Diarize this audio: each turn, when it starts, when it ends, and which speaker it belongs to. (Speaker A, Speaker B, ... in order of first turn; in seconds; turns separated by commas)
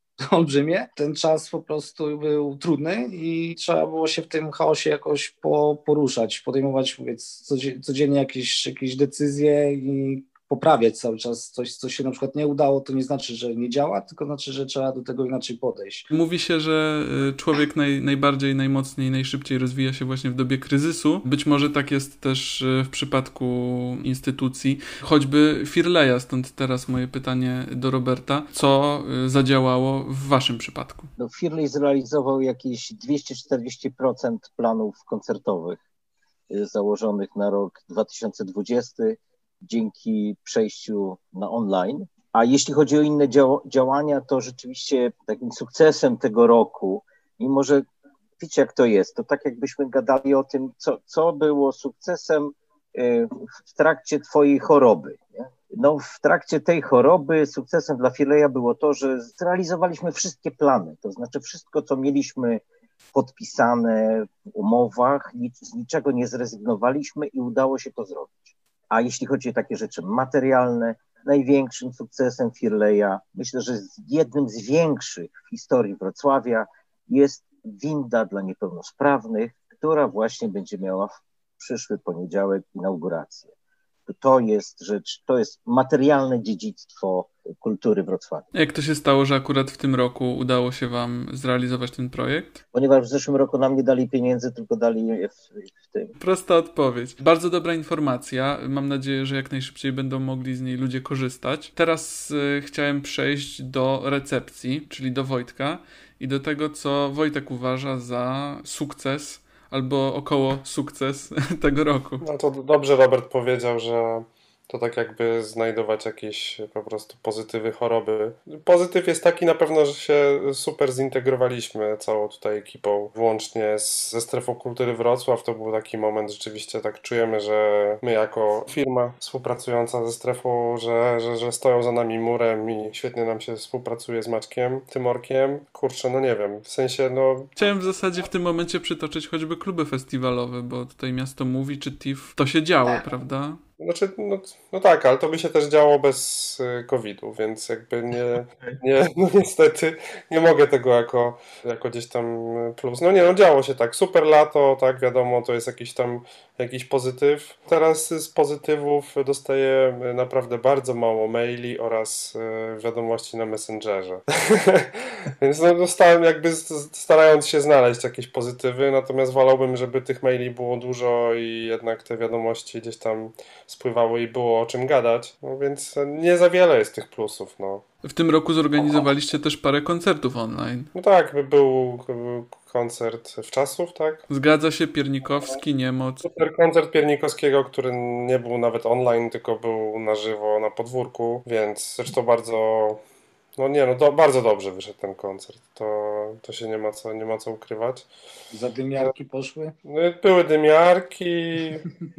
Speaker A: 0.2-16.1, Speaker B: 16.1-31.1, Speaker C: 31.2-35.8, Speaker C: 36.5-47.8, Speaker C: 48.4-62.6, Speaker C: 63.1-83.5, Speaker C: 84.1-88.5, Speaker B: 88.5-92.6, Speaker C: 92.7-96.1, Speaker B: 96.2-112.2, Speaker D: 112.2-137.5, Speaker B: 137.6-143.6, Speaker D: 143.8-177.8, Speaker B: 178.0-180.9, Speaker D: 180.9-184.2, Speaker B: 184.3-186.2, Speaker D: 186.2-193.0, Speaker D: 193.6-198.1, Speaker A: 198.5-199.7, Speaker D: 199.8-201.8